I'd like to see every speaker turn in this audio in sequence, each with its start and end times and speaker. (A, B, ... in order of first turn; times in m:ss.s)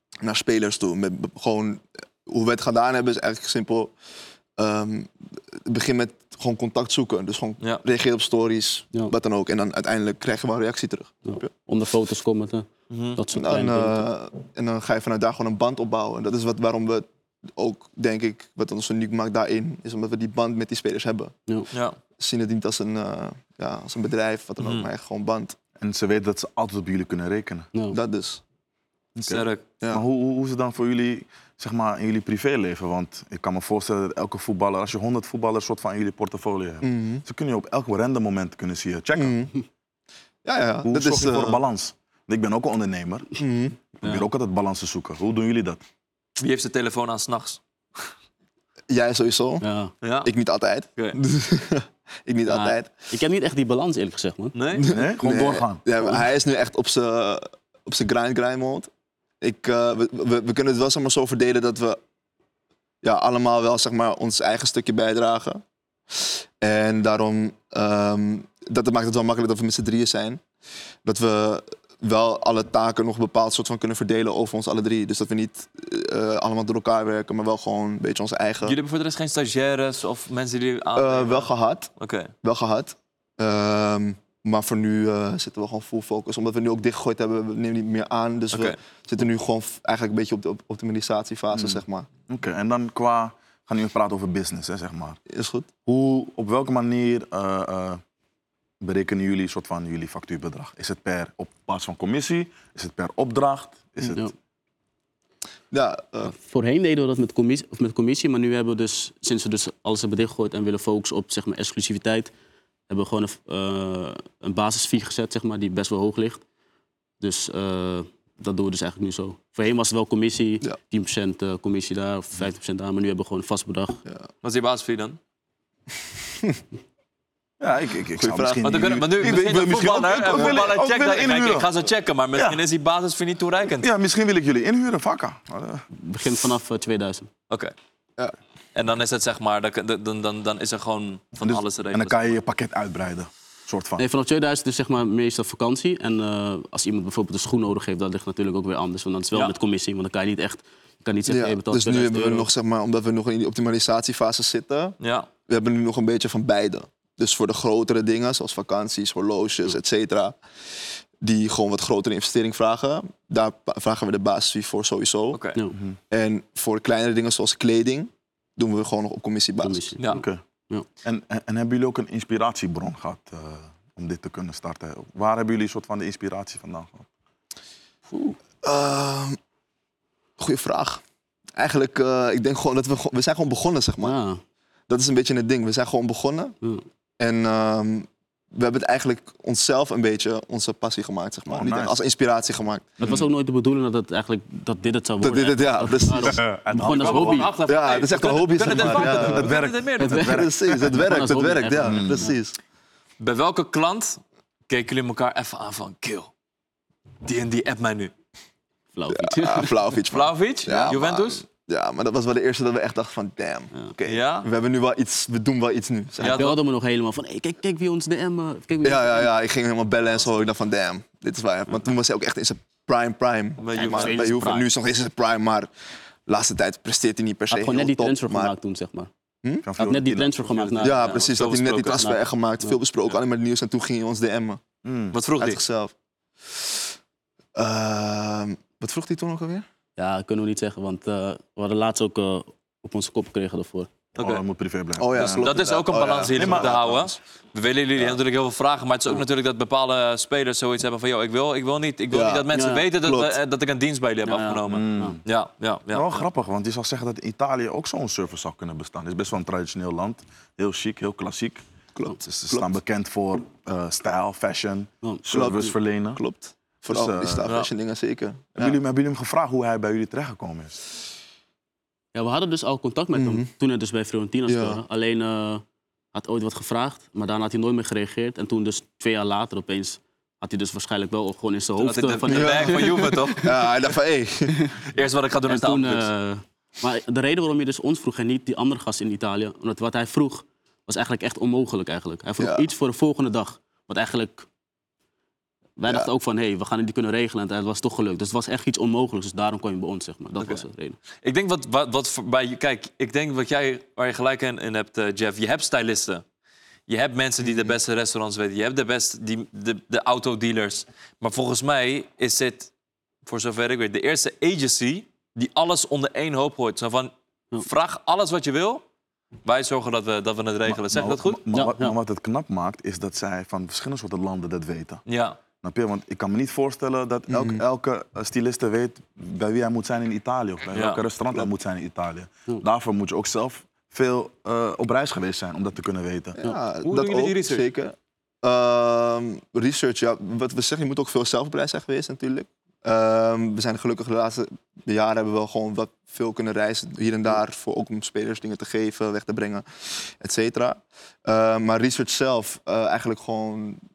0:00.2-0:03.9 A
0:04.6-0:11.5 A
0:11.2-0:14.0 B
0:12.9-0:13.2 C
0:13.3-0:21.3 A
0:21.7-0:22.0 C
0:22.2-0:25.6 A
0:24.6-0:24.9 C
0:25.8-0:27.7 D
0:27.9-0:28.4 A
0:29.1-0:39.4 D
0:29.3-0:29.6 C
0:36.8-0:37.2 A
0:39.1-0:39.5 A
0:40.4-0:41.6 A
0:40.8-0:43.3 D
0:43.4-0:43.8 A
0:44.0-0:45.8 D
0:46.4-0:47.6 C
0:48.9-0:49.6 A
0:49.6-0:49.9 B
0:50.0-0:50.3 C
0:50.2-0:52.9 A
0:52.5-0:54.6 B
0:54.5-0:54.9 C
0:54.8-0:58.9 A
0:54.9-0:55.8 D
0:59.4-1:02.0 A
1:03.0-1:10.4 A
1:11.0-1:18.8 A
1:18.6-1:22.3 C
1:21.0-1:21.9 A
1:22.4-1:32.1 A
1:28.5-1:28.8 C
1:31.5-1:35.2 D
1:35.3-1:35.7 A
1:35.9-1:38.0 D
1:38.8-1:44.3 D
1:45.7-1:46.3 A
1:46.3-1:52.3 B
1:52.9-1:56.4 B
1:57.2-2:04.0 B
2:04.4-2:05.2 C
2:07.6-2:11.7 D
2:08.2-2:09.0 A
2:08.6-2:13.9 C
2:12.3-2:12.6 D
2:13.8-2:15.9 D
2:16.0-2:17.3 B
2:18.8-2:22.2 C
2:21.4-2:24.0 D
2:24.0-2:32.5 B
2:31.3-2:35.0 A
2:35.0-2:35.3 C
2:35.5-2:40.4 A
2:41.2-2:45.4 A
2:45.3-2:45.6 C
2:46.1-2:50.0 A
2:49.6-2:50.9 B
2:50.1-2:50.4 D
2:51.0-2:57.1 D
2:58.6-2:59.4 A
3:00.4-3:01.0 A
3:01.6-3:04.1 A
3:04.0-3:04.4 B
3:04.9-3:06.5 A
3:07.2-3:13.0 A
3:11.5-3:12.0 D
3:13.0-3:13.3 D
3:13.0-3:17.5 B
3:15.2-3:16.4 A
3:16.2-3:17.5 D
3:16.8-3:20.3 C
3:17.6-3:19.5 A
3:18.9-3:21.0 D
3:20.0-3:22.3 B
3:20.2-3:22.6 A
3:21.8-3:22.3 D
3:23.2-3:26.3 C
3:27.2-3:28.1 C
3:28.9-3:29.8 B
3:29.1-3:36.4 A
3:30.1-3:31.4 C
3:34.0-3:34.5 C
3:36.2-3:36.6 C
3:36.2-3:39.3 B
3:38.8-3:45.7 A
3:43.6-3:44.3 C
3:43.7-3:44.7 B
3:46.3-3:48.5 A
3:47.5-3:49.1 B
3:49.6-3:50.6 D
3:49.8-3:51.2 B
3:50.5-3:52.1 C
3:50.8-3:54.6 A
3:51.9-3:52.8 B
3:54.8-3:55.2 D
3:55.1-3:55.6 C
3:55.4-3:55.9 A
3:57.6-3:59.6 A
4:00.0-4:03.9 B
4:04.2-4:04.4 C
4:04.2-4:05.5 D
4:05.0-4:07.2 A
4:05.2-4:16.2 C
4:06.3-4:06.8 D
4:12.1-4:13.4 A
4:12.5-4:12.8 B
4:14.2-4:15.2 B
4:14.7-4:15.2 D
4:15.9-4:21.6 D
4:22.0-4:22.8 A
4:22.2-4:26.2 D
4:25.0-4:25.4 B
4:25.3-4:28.8 A
4:26.8-4:27.5 D
4:28.6-4:30.8 D
4:32.1-4:35.6 B
4:33.1-4:33.5 A
4:34.5-4:34.8 A
4:36.1-4:43.4 B
4:41.8-4:43.5 C
4:42.3-4:44.6 A
4:44.9-4:46.1 C
4:45.5-4:54.5 B
4:52.4-4:52.7 A
4:55.8-5:01.0 B
5:00.4-5:00.6 C
5:01.2-5:06.2 C
5:06.9-5:12.7 C
5:13.2-5:18.8 C
5:19.4-5:21.4 C
5:20.7-5:25.0 D
5:21.5-5:22.0 B
5:25.1-5:25.4 C
5:25.6-5:36.4 D
5:27.3-5:27.6 A
5:30.7-5:31.0 C
5:36.4-5:53.8 A
5:36.8-5:37.6 C